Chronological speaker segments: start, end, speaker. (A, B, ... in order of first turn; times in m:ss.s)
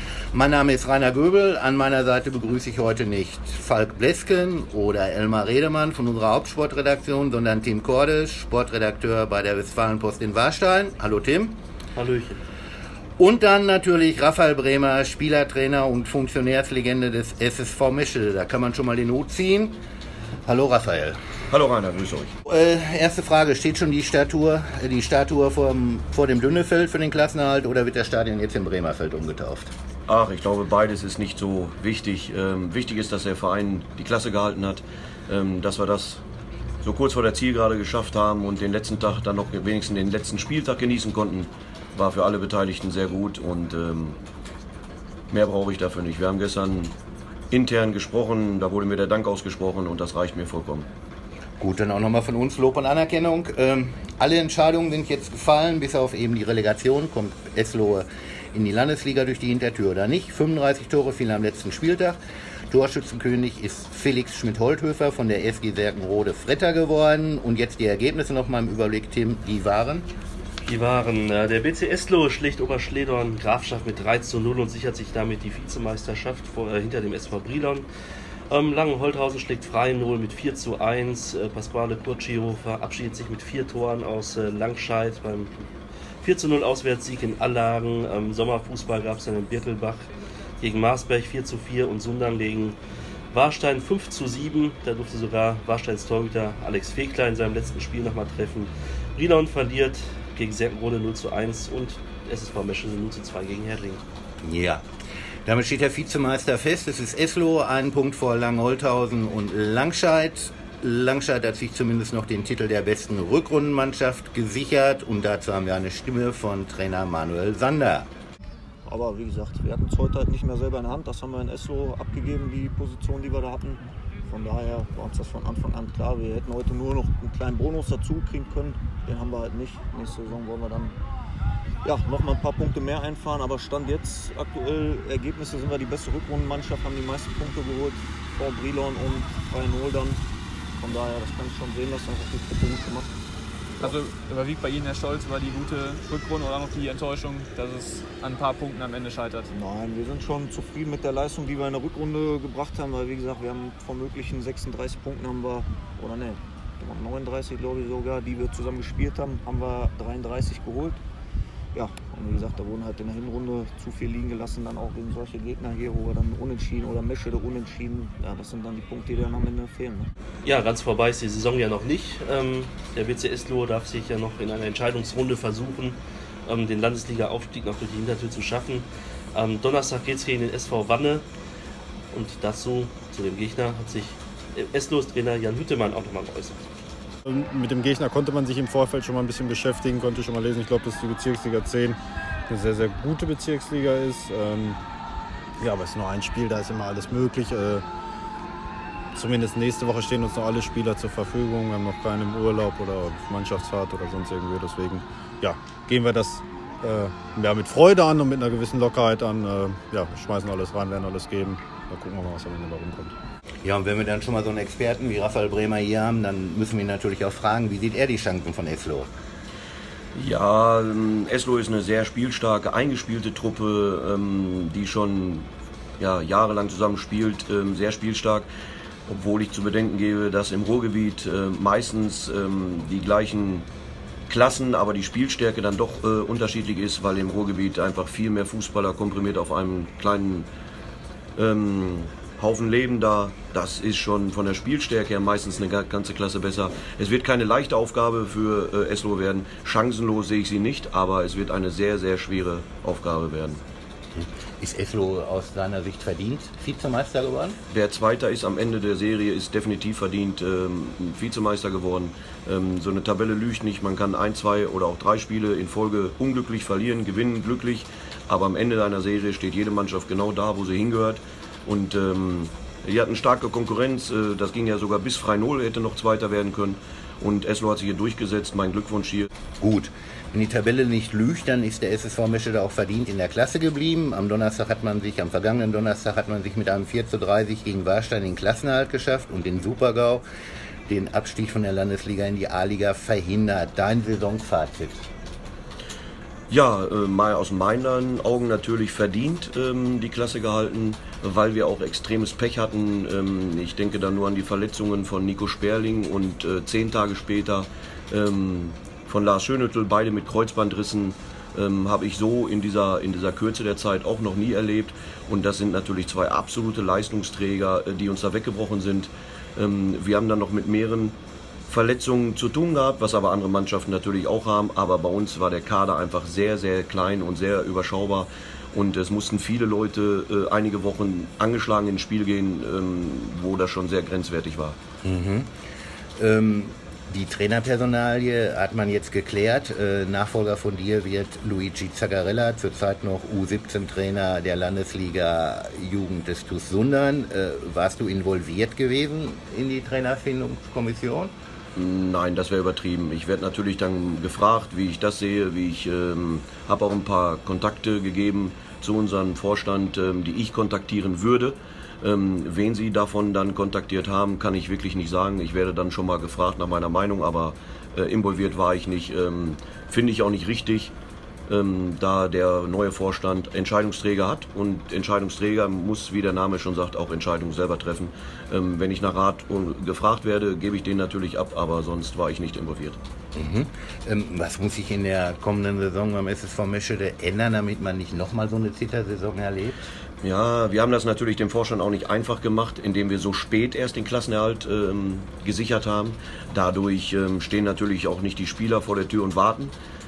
0:00.3-0:11.6 A
0:12.0-0:12.4 B
0:13.2-0:19.8 A
0:20.5-0:21.2 A
0:21.5-0:22.3 C
0:22.5-0:29.7 A
0:30.1-0:36.2 C
0:36.8-0:44.2 C
0:45.3-0:47.0 C
0:47.5-0:50.9 C
0:51.6-1:02.2 A
1:02.7-1:10.1 A
1:10.6-1:17.9 B
1:18.5-1:25.5 B
1:26.2-1:30.1 B
1:30.6-1:32.8 B
1:33.3-1:44.0 B
1:44.4-1:44.8 A
1:45.5-1:58.1 A
1:58.8-2:11.0 D
2:11.8-2:20.2 D
2:20.8-2:23.1 D
2:23.8-2:29.5 E
2:29.5-2:41.0 D
2:41.8-2:50.1 D
2:50.4-3:01.2 B
3:02.1-3:06.6 B
3:07.2-3:12.0 F
3:12.5-3:14.8 F
3:15.6-3:17.8 F
3:19.1-3:33.1 F
3:33.6-3:39.1 A
3:40.2-3:45.5 C
3:46.0-3:48.5 C
3:49.1-3:53.7 C
3:54.3-4:00.5 C
4:01.4-4:13.6 C
4:14.2-4:17.6 A
4:17.7-4:39.3 C
4:39.6-4:50.2 A
4:50.9-4:55.1 A
4:56.5-5:21.2 C
5:21.7-5:34.8 C
5:35.0-5:35.5 A
5:36.2-5:51.3 A
5:51.8-6:10.9 C
6:11.5-6:23.0 C
6:23.4-6:29.8 A
6:30.2-6:39.7 C